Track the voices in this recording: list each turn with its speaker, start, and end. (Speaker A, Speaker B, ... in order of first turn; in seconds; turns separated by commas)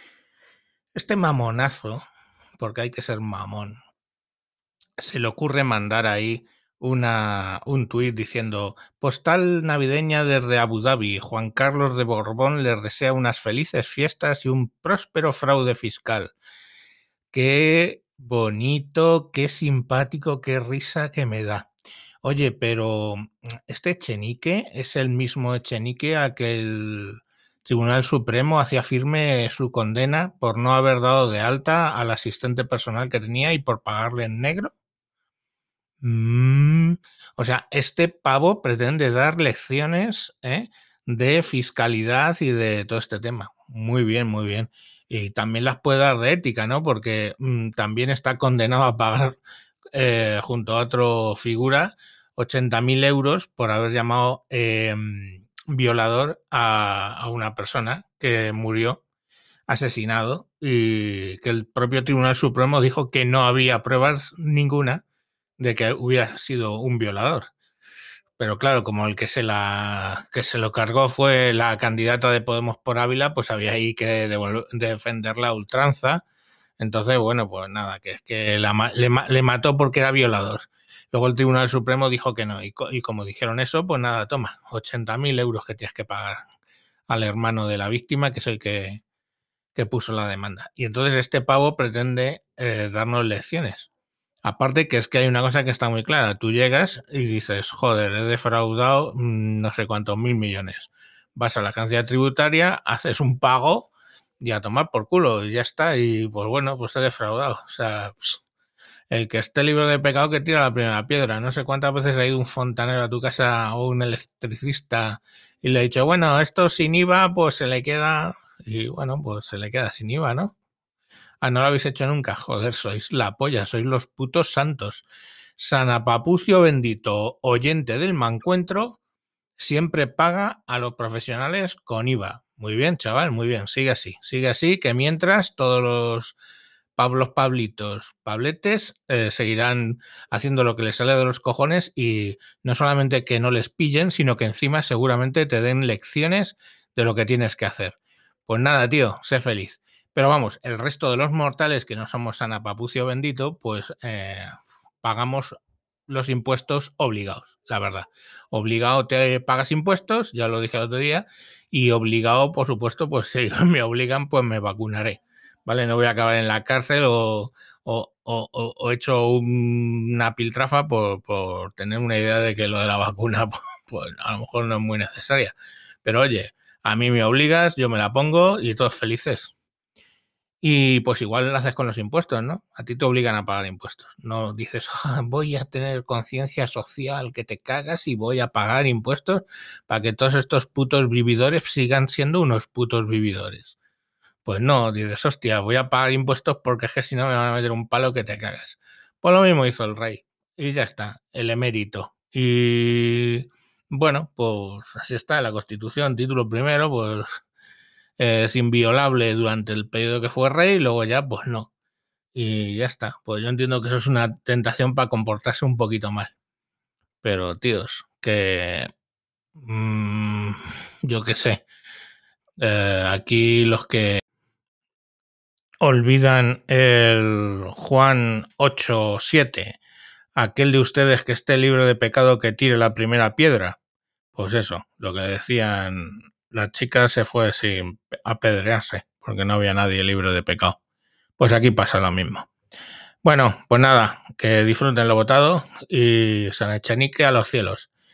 Speaker A: 0.9-2.0, Speaker A: 2.6-3.8, Speaker A: 5.0-16.3, Speaker A: 17.3-21.7, Speaker A: 22.2-34.7, Speaker A: 36.0-49.4, Speaker A: 49.9-59.0, Speaker A: 59.7-65.0, Speaker A: 65.6-67.5, Speaker A: 68.4-76.2, Speaker A: 76.8-86.4, Speaker A: 87.1-89.0, Speaker A: 89.8-93.9, Speaker A: 94.4-108.4, Speaker A: 109.1-120.5, Speaker A: 121.4-125.0, Speaker A: 125.6-129.0, Speaker A: 129.6-136.4, Speaker A: 137.0-155.6, Speaker A: 156.1-179.5, Speaker A: 180.6-193.8, Speaker A: 194.4-207.3, Speaker A: 208.2-211.7, Speaker A: 212.3-216.3, Speaker A: 217.2-218.9, Speaker A: 219.6-221.6, Speaker A: 222.6-224.2, Speaker A: 225.8-229.8, Speaker A: 230.4-233.8, Speaker A: 234.3-240.8, Speaker A: 241.4-242.5, Speaker A: 243.2-247.9